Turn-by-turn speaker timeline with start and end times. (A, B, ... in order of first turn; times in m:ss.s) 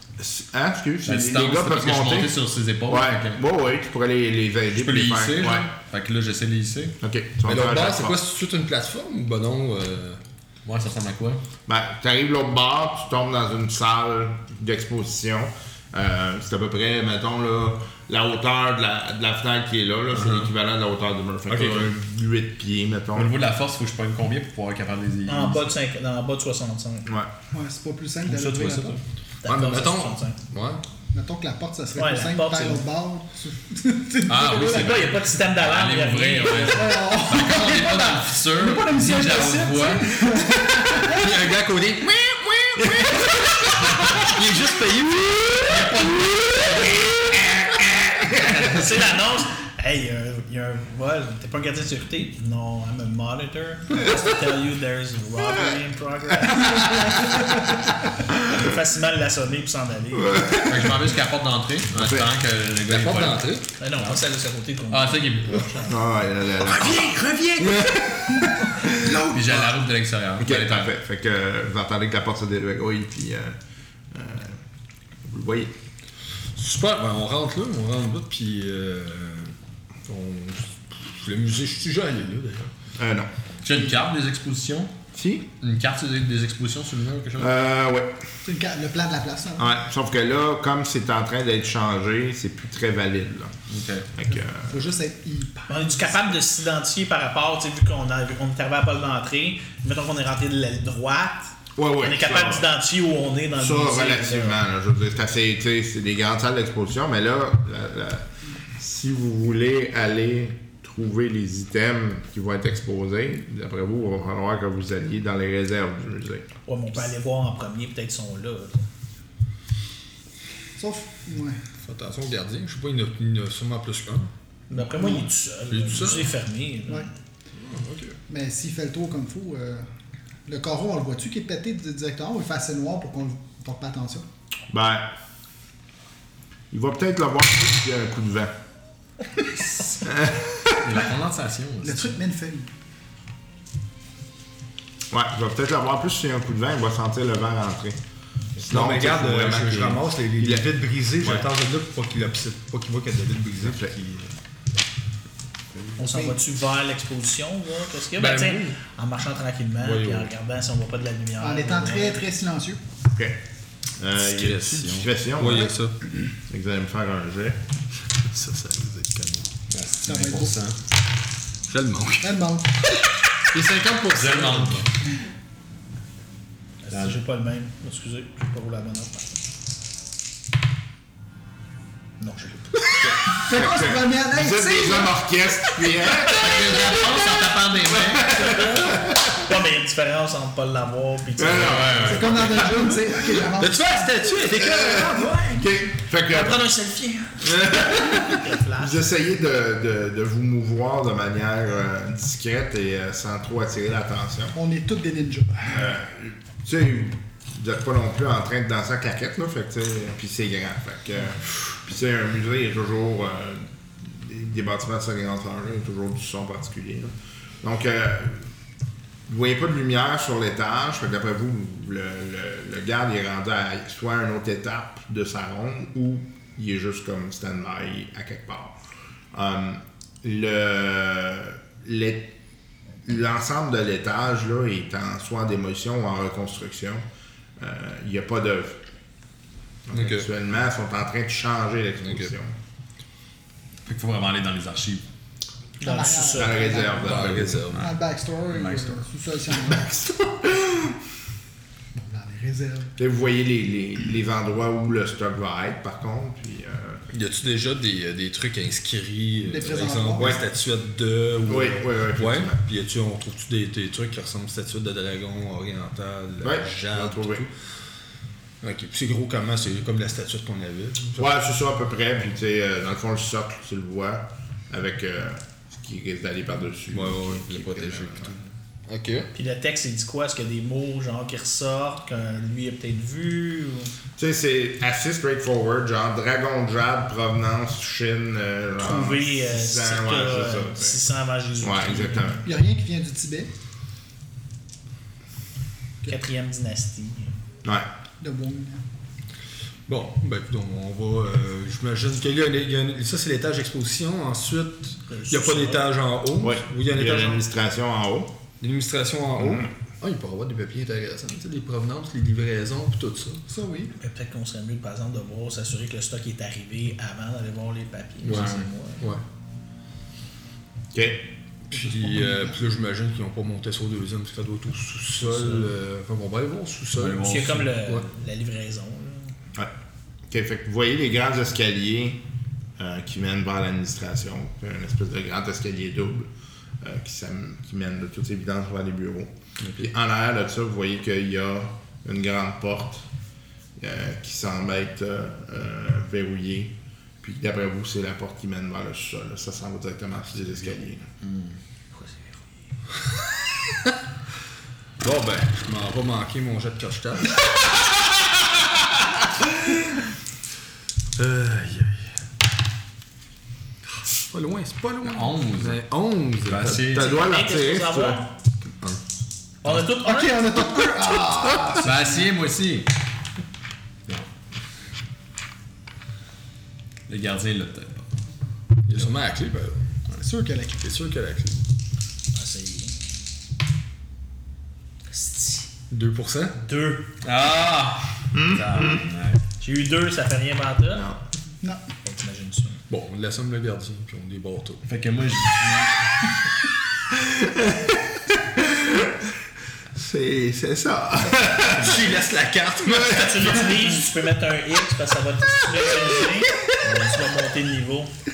0:00.2-0:02.3 A
0:01.0-0:03.4 B
0:02.9-0:05.7 A
0:04.8-0:07.0 B
0:07.0-0:08.2 A
0:07.4-0:10.2 C
0:10.6-0:11.4 B
0:11.7-0:23.3 A
0:20.1-0:20.5 B
0:21.5-0:21.9 B
0:23.1-0:25.7 B
0:25.3-0:27.1 D
0:27.5-0:29.0 E
0:28.3-0:29.0 B
0:29.4-0:30.4 D
0:29.5-0:30.8 C
0:31.1-0:35.0 E
0:32.0-0:32.8 D
0:34.3-0:40.4 B
0:34.6-0:37.0 D
0:36.7-0:41.3 E
0:41.0-0:46.1 C
0:45.8-0:46.2 D
0:47.8-0:48.6 A
0:48.6-0:57.3 D
0:58.4-1:00.6 D
1:00.2-1:00.9 A
1:00.6-1:04.2 B
1:02.0-1:02.3 A
1:02.9-1:03.7 C
1:03.8-1:06.0 D
1:04.9-1:05.9 B
1:05.9-1:09.0 A
1:06.6-1:08.0 C
1:08.5-1:09.7 E
1:09.2-1:10.9 B
1:10.4-1:13.6 A
1:14.1-1:14.6 A
1:15.3-1:15.7 A
1:16.6-1:19.5 C
1:20.1-1:22.7 C
1:23.0-1:23.3 A
1:23.6-1:24.9 B
1:25.1-1:25.5 A
1:25.6-1:27.5 B
1:27.4-1:28.2 A
1:28.4-1:29.7 E
1:29.6-1:33.5 A
1:33.7-1:34.1 B
1:34.1-1:34.8 A
1:34.3-1:36.4 E
1:35.7-1:44.6 D
1:41.8-1:42.7 A
1:43.6-1:48.3 A
1:48.8-1:56.5 A
1:56.6-1:58.8 D
2:00.8-2:01.6 E
2:01.8-2:04.3 C
2:04.7-2:07.1 D
2:04.9-2:05.2 E
2:05.7-2:06.4 C
2:07.6-2:08.2 C
2:08.3-2:09.8 E
2:10.5-2:14.2 E
2:14.7-2:15.1 A
2:16.7-2:18.5 A
2:20.0-2:20.8 A
2:20.8-2:22.2 B
2:21.8-2:22.7 E
2:25.1-2:28.0 A
2:28.6-2:31.5 A
2:28.6-2:34.3 C
2:33.6-2:33.9 A
2:36.0-2:42.3 D
2:36.0-2:36.4 E
2:38.2-2:38.7 C
2:39.8-2:40.3 C
2:41.4-2:42.8 E
2:43.1-2:43.4 A
2:44.0-2:45.8 A
2:44.2-2:46.0 C
2:46.5-2:47.6 A
2:48.2-2:49.5 C
2:49.7-2:50.8 B
2:50.0-2:50.6 E
2:51.7-2:52.3 C
2:52.2-2:52.8 E
2:53.5-2:54.9 C
2:54.1-2:54.9 B
2:56.8-2:59.4 D
2:56.9-2:57.2 B
3:02.2-3:02.9 D
3:03.0-3:06.4 A
3:03.3-3:05.2 E
3:06.3-3:08.5 B
3:08.1-3:12.4 D
3:08.1-3:09.3 A
3:11.4-3:12.8 A
3:11.6-3:12.9 B
3:12.1-3:15.8 E
3:13.6-3:15.3 C
3:14.6-3:16.6 A
3:16.2-3:19.0 D
3:17.4-3:24.6 A
3:24.5-3:26.0 E
3:25.7-3:38.5 A
3:39.3-3:48.8 A
3:49.3-3:52.3 A
3:53.0-3:57.1 A
3:57.6-3:58.8 A
3:59.9-4:02.6 A
3:59.9-4:00.3 C
4:02.0-4:02.3 C
4:03.9-4:05.0 B
4:05.8-4:06.9 D
4:05.8-4:09.9 E
4:06.3-4:07.6 A
4:07.0-4:07.9 C
4:07.3-4:09.0 B
4:09.7-4:10.9 A
4:12.0-4:13.0 E
4:13.0-4:17.0 A
4:17.1-4:27.5 C
4:19.4-4:20.4 E
4:20.2-4:20.4 A
4:21.5-4:22.6 A
4:26.4-4:27.5 A
4:28.6-4:31.3 C
4:31.2-4:38.4 A
4:36.9-4:39.3 C
4:39.3-4:43.9 D
4:44.2-4:51.0 A
4:48.8-4:52.5 D
4:51.6-4:52.4 A
4:52.4-4:53.5 E
4:56.0-4:57.3 D
4:58.2-4:58.8 E
4:59.9-5:07.4 C
5:05.1-5:05.9 D
5:06.4-5:08.3 A
5:08.6-5:13.4 C
5:09.4-5:09.7 A
5:13.5-5:13.9 E
5:14.0-5:19.0 D
5:18.2-5:19.2 C
5:18.3-5:18.6 B
5:20.9-5:21.3 A
5:21.7-5:27.3 C
5:21.7-5:22.6 E
5:25.2-5:25.7 D
5:27.0-5:27.7 B
5:27.2-5:29.3 D
5:30.3-5:32.2 A
5:32.8-5:36.3 A
5:36.8-5:43.1 A
5:39.6-5:39.9 C
5:43.8-5:51.1 A
5:51.2-5:51.6 B
5:55.0-5:57.4 C
6:01.2-6:02.0 C
6:04.3-6:06.9 C
6:05.0-6:05.8 B
6:06.4-6:07.2 B
6:06.7-6:08.2 A
6:06.9-6:08.3 D
6:08.6-6:09.0 C
6:09.6-6:10.5 D
6:10.0-6:12.3 E
6:11.7-6:12.9 B
6:17.1-6:18.1 B
6:18.9-6:19.8 C
6:20.2-6:20.8 E
6:20.8-6:21.6 C
6:22.3-6:23.0 D
6:25.1-6:25.7 D
6:25.9-6:26.6 C
6:26.6-6:27.1 D
6:27.2-6:29.4 B
6:28.3-6:29.0 A
6:29.6-6:31.1 D
6:30.9-6:31.2 A
6:32.0-6:32.8 D
6:32.9-6:34.8 C
6:34.8-6:36.0 B
6:37.1-6:39.1 A
6:40.0-6:42.1 A
6:41.7-6:43.6 C
6:42.9-6:43.6 A
6:43.0-6:48.1 D